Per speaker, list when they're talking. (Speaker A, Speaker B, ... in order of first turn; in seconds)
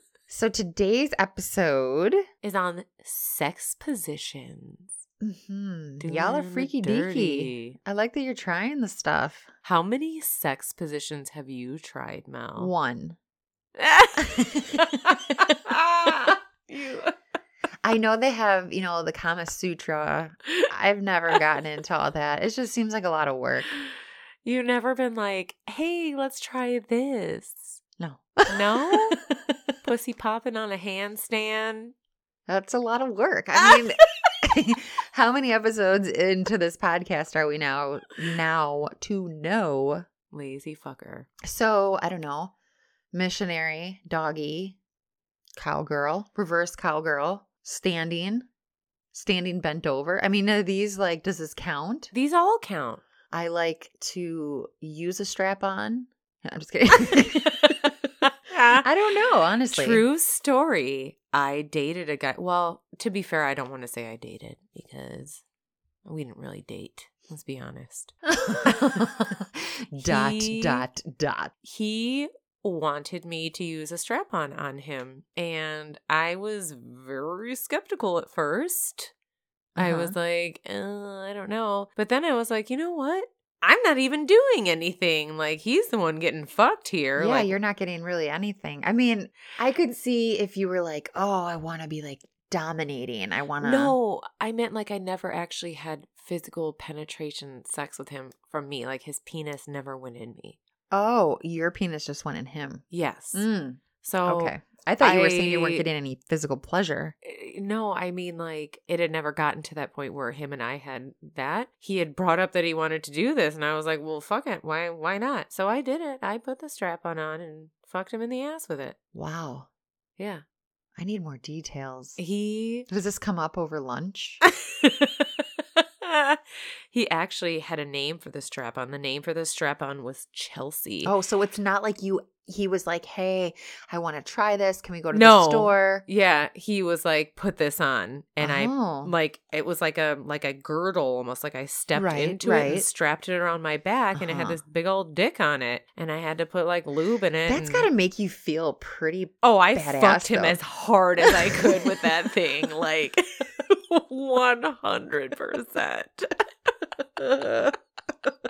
Speaker A: 0.3-2.2, 5.2-9.5, 12.6-13.2, 14.2-15.5, 17.8-23.7, 28.0-29.6, 32.5-40.0, 41.4-42.5, 43.1-44.8, 45.6-48.5, 49.1-52.1, 53.3-57.9, 58.8-60.0, 68.3-71.5, 79.8-80.1, 87.2-94.0, 100.9-107.1, 119.1-119.7, 121.0-122.2, 122.9-124.4, 131.0-136.0, 138.4-139.1, 141.9-142.8, 144.1-144.6, 147.5-150.6, 151.2-152.1
Speaker B: 2.4-4.9, 6.0-7.8, 9.6-12.7, 13.8-17.1, 24.4-27.8, 28.5-29.2, 29.8-31.9, 40.3-41.3, 52.1-53.0, 58.5-58.9, 59.7-65.4, 66.0-68.1, 70.0-70.9, 71.6-79.1, 79.8-87.5, 93.6-100.6, 102.9-103.5, 104.0-105.8, 107.2-119.0, 120.2-120.4, 122.2-122.9, 124.4-131.1, 135.1-147.9, 149.4-156.4, 157.3-157.6